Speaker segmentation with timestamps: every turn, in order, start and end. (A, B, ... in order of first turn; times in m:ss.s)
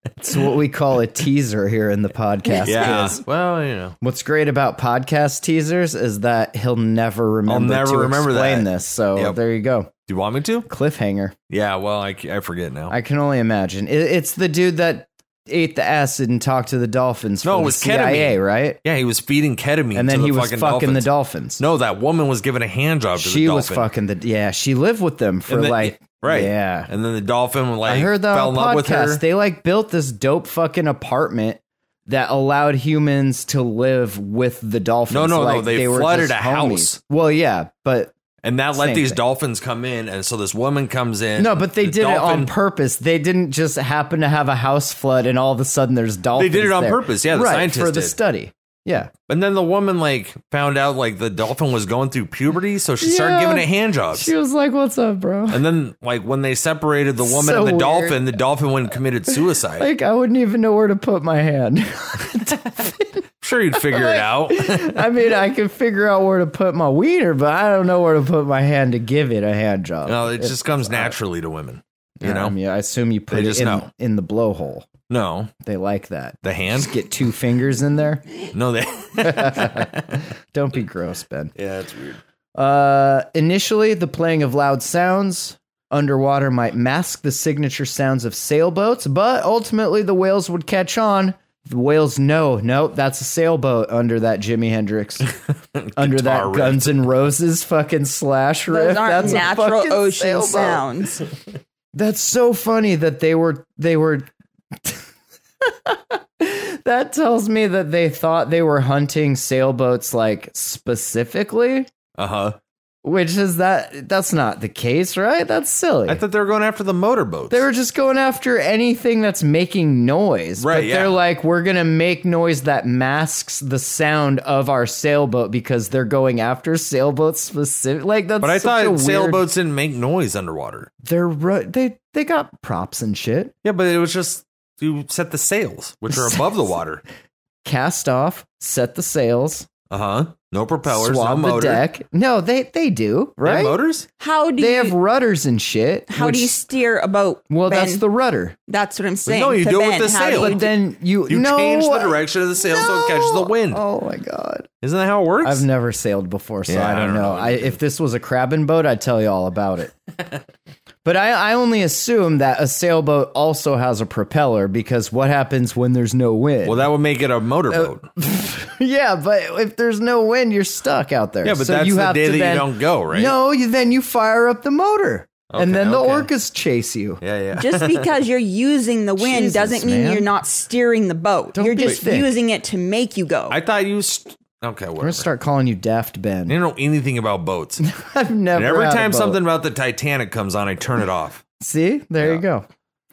0:00.2-0:03.2 A
0:02.5-0:02.9 B
0:02.6-0:04.0 C
0:04.0-0:09.9 A
0:07.5-0:09.4 C
0:10.1-0:10.7 C
0:10.7-0:11.3 A
0:11.5-0:12.9 C
0:12.9-0:18.8 A
0:17.4-0:21.1 C
0:19.9-0:21.6 A
0:21.6-0:23.9 C
0:23.2-0:26.9 A
0:25.5-0:29.2 C
0:27.8-0:38.2 A
0:35.1-0:37.0 C
0:38.4-0:42.5 C
0:38.7-0:39.2 A
0:41.4-0:49.1 A
0:46.3-0:48.1 C
0:49.3-0:54.3 C
0:53.0-0:55.6 A
0:55.5-0:59.9 C
0:57.2-0:58.4 A
0:59.4-1:03.2 A
1:03.4-1:05.0 C
1:03.8-1:11.2 A
1:10.0-1:12.6 C
1:12.2-1:14.9 A
1:13.3-1:13.8 C
1:15.1-1:15.5 C
1:15.6-1:18.2 A
1:16.4-1:17.0 C
1:18.5-1:20.1 C
1:19.2-1:21.5 A
1:21.6-1:22.2 C
1:22.5-1:35.3 A
1:35.8-1:37.0 C
1:36.0-1:40.9 A
1:38.7-1:41.2 B
1:41.9-1:44.3 A
1:45.6-1:51.9 A
1:52.2-1:52.6 C
1:53.0-1:56.2 A
1:56.1-1:57.6 C
1:57.5-2:09.4 A
2:00.6-2:01.2 C
2:08.4-2:10.9 C
2:11.0-2:13.5 A
2:13.6-2:17.0 C
2:16.1-2:16.4 A
2:17.6-2:19.7 A
2:19.9-2:21.8 C
2:20.8-2:23.8 A
2:23.4-2:24.1 C
2:24.2-2:24.9 B
2:24.6-2:26.6 A
2:26.1-2:28.0 B
2:27.5-2:28.6 A
2:28.7-2:30.7 B
2:29.2-2:30.6 C
2:30.3-2:34.7 A
2:31.3-2:33.8 C
2:34.8-2:35.6 C
2:35.4-2:39.9 A
2:36.7-2:37.8 C
2:41.0-2:46.9 A
2:46.6-2:48.0 C
2:47.7-2:57.2 A
2:51.4-2:53.3 C
2:55.5-2:56.3 C
2:57.2-2:58.1 C
2:57.6-3:03.6 B
2:59.2-3:00.3 A
3:01.5-3:02.3 A
3:03.5-3:05.3 C
3:05.0-3:06.6 A
3:06.5-3:07.8 C
3:07.8-3:09.4 A
3:08.5-3:11.4 C
3:11.6-3:12.6 A